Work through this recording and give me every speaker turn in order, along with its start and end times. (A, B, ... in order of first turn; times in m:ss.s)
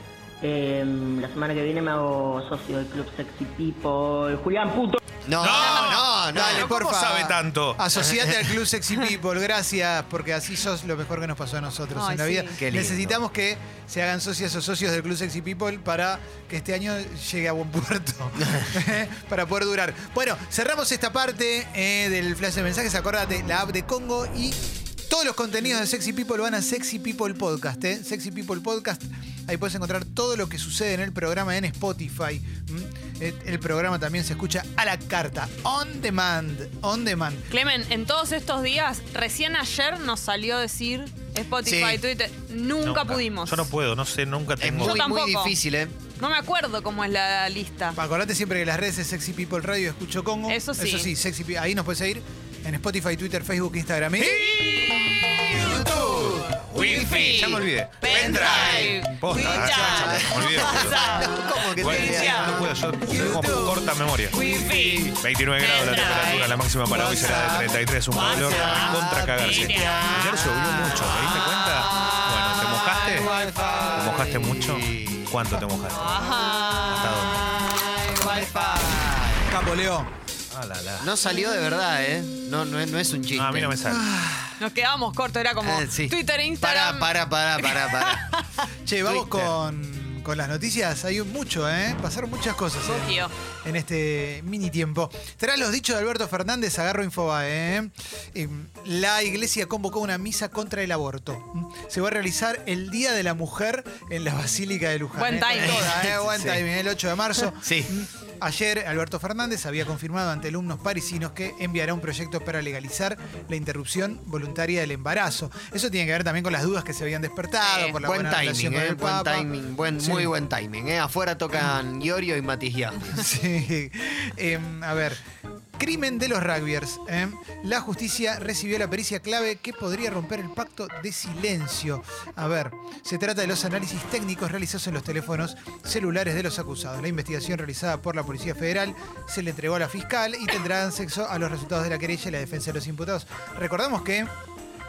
0:00.4-0:05.0 A
0:05.2-0:06.7 B
0:05.4-0:07.8 C
0:06.3-0:37.4 D
0:11.9-0:12.6 E
0:12.6-0:13.2 B
0:18.4-0:18.7 B
0:37.5-0:43.7 E
0:41.6-0:42.0 B
0:42.8-0:45.1 C
0:44.6-0:46.0 B
0:44.8-0:45.6 E
0:46.2-0:48.0 E
0:48.0-0:54.5 D
0:50.5-0:51.1 E
0:54.2-1:01.0 C
0:54.6-0:55.4 E
0:55.5-0:57.6 B
0:56.8-1:02.6 E
0:58.1-1:03.6 B
1:01.8-1:04.4 C
1:04.3-1:06.5 E
1:04.4-1:05.0 B
1:05.1-1:13.4 C
1:06.9-1:07.6 D
1:08.1-1:10.1 E
1:08.2-1:11.0 B
1:13.3-1:15.4 B
1:13.9-1:16.2 C
1:15.9-1:17.1 E
1:16.8-1:17.4 C
1:17.5-1:19.5 B
1:18.1-1:18.7 E
1:19.4-1:20.1 D
1:20.5-1:21.1 C
1:21.0-1:23.7 B
1:23.3-1:24.0 C
1:23.8-1:24.5 D
1:24.6-1:28.4 E
1:25.6-1:28.2 B
1:28.8-2:00.3 D
1:29.1-1:29.5 C
1:32.8-1:33.3 E
1:45.2-1:46.0 E
1:45.6-1:46.6 B
1:47.6-1:48.0 B
1:57.6-1:58.0 E
1:58.0-2:03.3 B
2:03.1-2:05.2 D
2:05.8-2:24.3 D